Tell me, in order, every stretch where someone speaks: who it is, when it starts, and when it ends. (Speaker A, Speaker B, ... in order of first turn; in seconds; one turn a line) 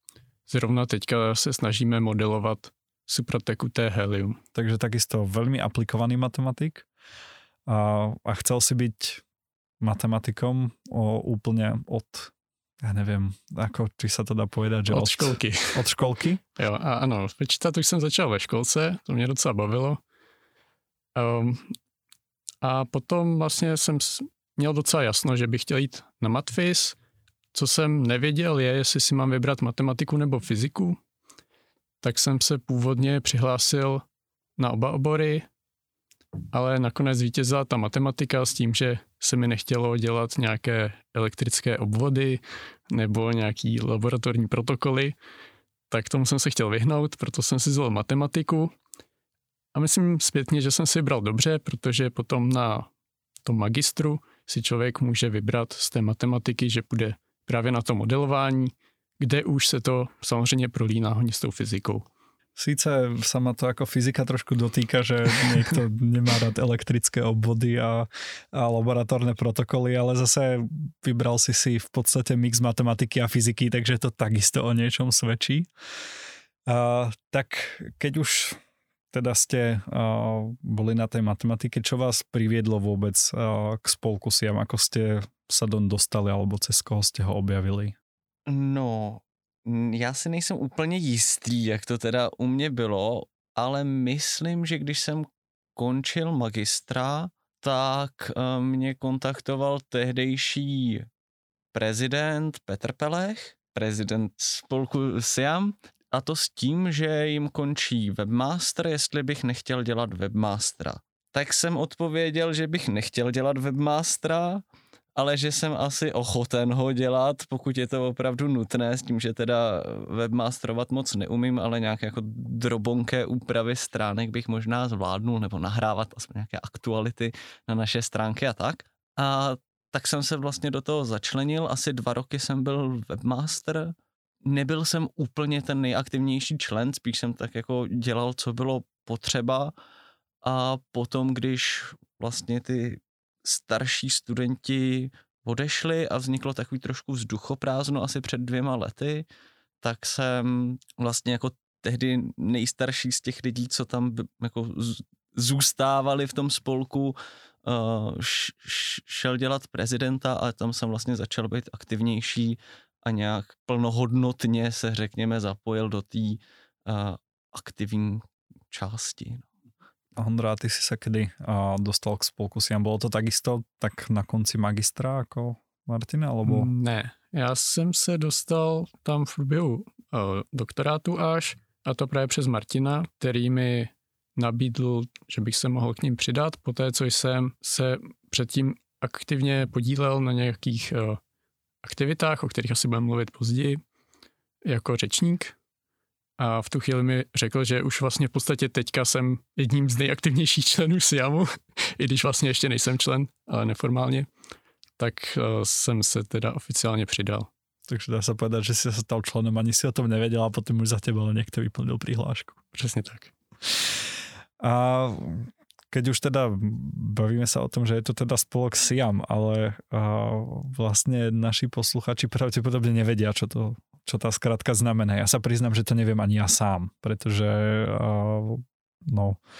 Speaker A: 0.5-4.4
Speaker B: 4.5-6.9
Speaker B: 7.7-9.2
Speaker B: 9.8-16.4
Speaker A: 14.9-15.9
Speaker A: 16.6-20.0
Speaker A: 21.1-21.7
Speaker A: 22.6-27.0
Speaker A: 27.5-31.0
Speaker A: 32.0-34.0
Speaker A: 34.6-35.5
Speaker A: 36.5-45.1
Speaker A: 45.9-48.7
Speaker A: 49.7-52.9
Speaker A: 53.4-62.0
Speaker B: 62.5-75.7
Speaker B: 76.7-78.6
Speaker B: 79.1-87.9
Speaker C: 88.5-101.1
Speaker C: 101.7-114.6
Speaker C: 115.2-133.9
Speaker C: 134.4-139.7
Speaker C: 140.4-149.2
Speaker C: 149.8-169.5
Speaker B: 170.2-176.7
Speaker A: 176.4-191.2
Speaker A: 191.8-193.8
Speaker A: 194.6-195.6
Speaker A: 196.4-204.3
Speaker A: 205.0-207.5
Speaker B: 207.9-212.6
Speaker A: 212.7-213.3
Speaker B: 214.6-229.4